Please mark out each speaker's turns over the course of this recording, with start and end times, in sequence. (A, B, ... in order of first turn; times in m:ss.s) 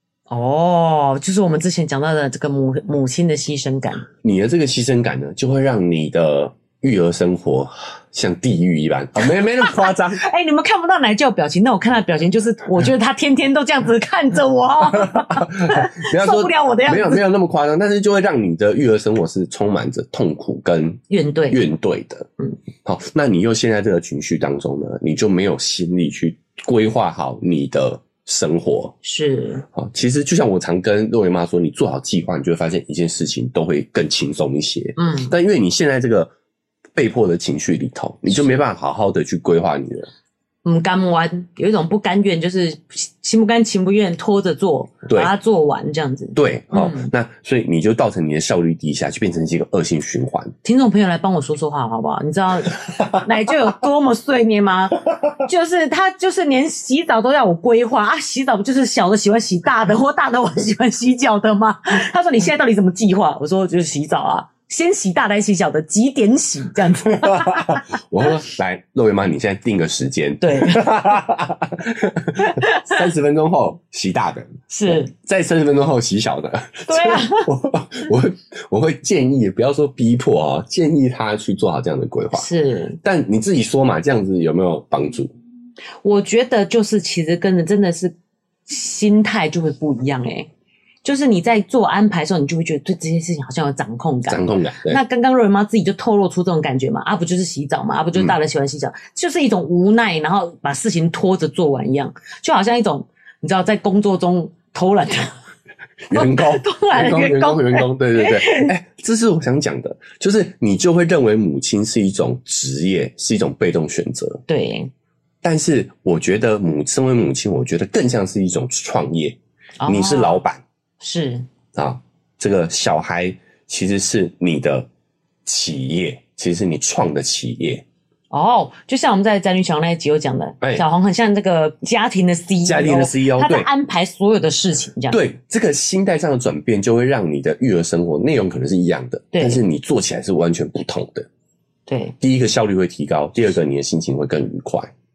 0:00.3-0:04.1 A
0:04.2-0:10.2 B
0:09.6-0:17.2 A
0:15.0-0:22.3 B
0:21.1-0:21.6 A
0:22.8-0:29.0 B
0:29.0-0:29.6 A
0:29.7-0:36.3 B
0:35.0-0:35.3 A
0:37.0-0:40.1 B
0:40.6-0:47.1 A
0:45.1-0:45.3 B
0:46.4-0:50.5 B
0:50.6-1:07.9 A
1:07.1-1:22.5 B
1:10.4-1:11.2 A
1:12.4-1:13.0 A
1:14.7-1:15.1 A
1:16.9-1:17.5 A
1:22.3-1:23.0 A
1:23.0-1:25.3 B
1:26.0-1:28.1 A
1:28.7-1:30.5 A
1:31.0-1:45.4 A
1:34.3-1:35.0 B
1:46.1-1:54.4 B
1:46.1-1:48.7 A
1:54.5-1:54.9 A
1:55.4-2:00.6 B
1:59.8-2:00.4 A
2:01.0-2:01.5 A
2:01.8-2:04.9 B
2:05.5-2:07.8 B
2:08.3-2:15.2 A
2:12.6-2:13.7 B
2:15.1-2:21.3 B
2:19.3-2:19.6 A
2:21.9-2:22.2 A
2:22.2-2:24.9 B